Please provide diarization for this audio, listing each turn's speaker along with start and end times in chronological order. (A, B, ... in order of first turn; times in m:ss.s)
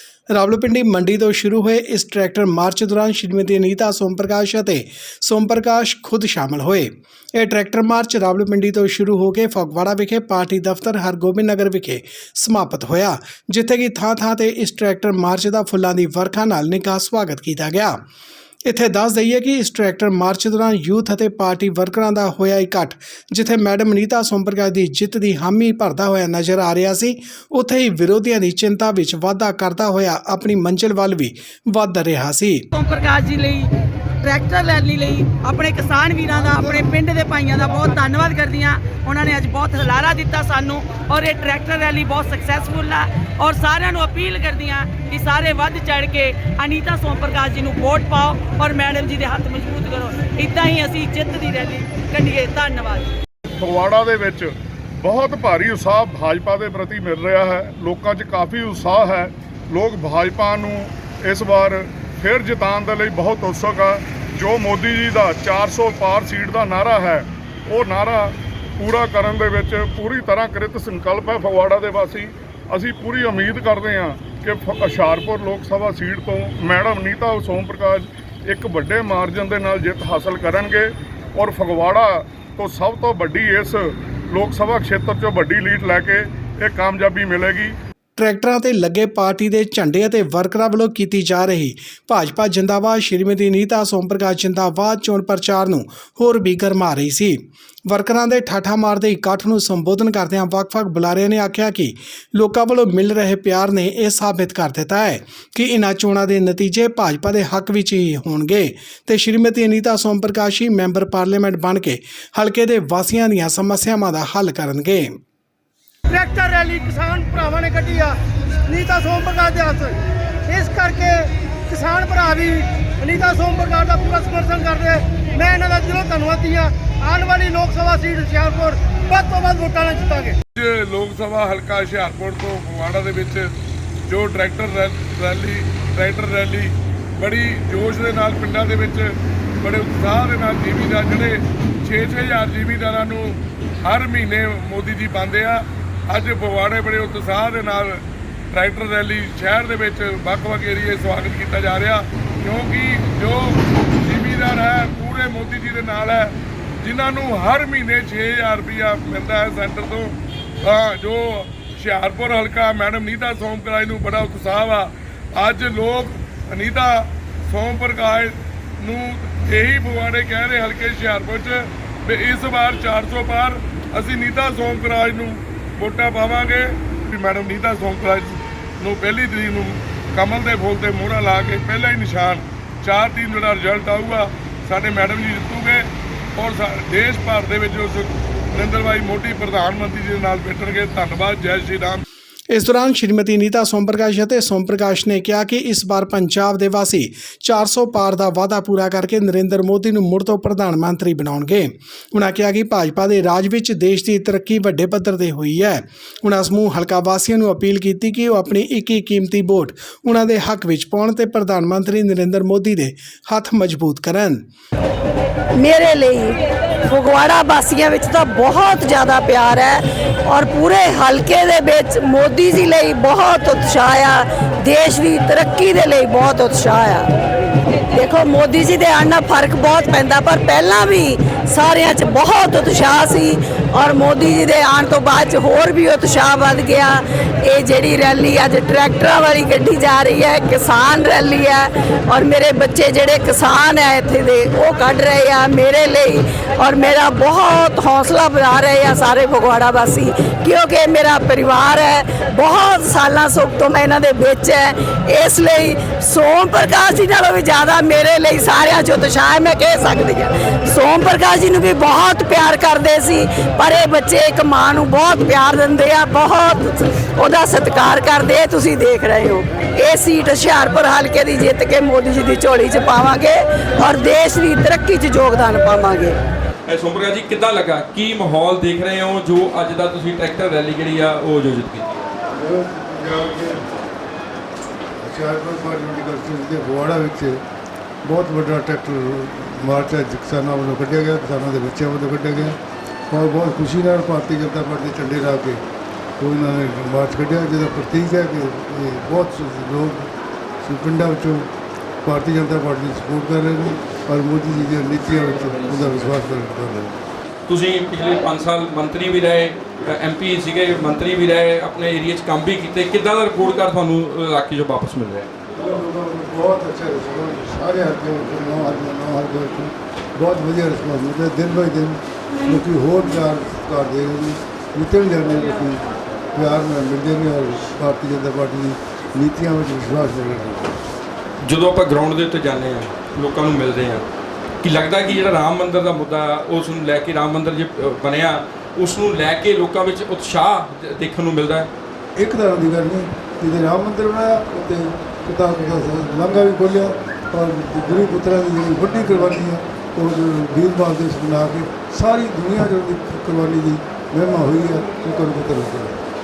0:00.3-0:18.0 A
0:18.7-0:32.7 A
0:32.7-0:33.7 B
0:34.2-0:53.2 B
0:53.6-1:27.8 C
1:28.2-1:55.2 A
1:56.1-1:58.1 D
1:58.7-2:00.0 D
2:00.5-2:10.4 D
2:10.6-2:13.5 E
2:14.1-3:12.0 E
3:12.5-3:34.4 A
3:35.5-3:47.1 F
3:47.9-4:36.2 F
4:36.7-4:42.1 G
4:42.3-4:43.7 H
4:45.0-4:47.4 H
4:48.0-4:52.6 H
4:53.1-4:55.6 H
4:56.2-5:00.1 H
5:00.6-5:01.5 H
5:02.0-5:07.0 H
5:05.5-5:06.2 G
5:07.5-5:15.3 G
5:15.5-5:30.8 H
5:31.4-5:34.0 G
5:34.6-5:41.7 G
5:42.2-5:56.0 H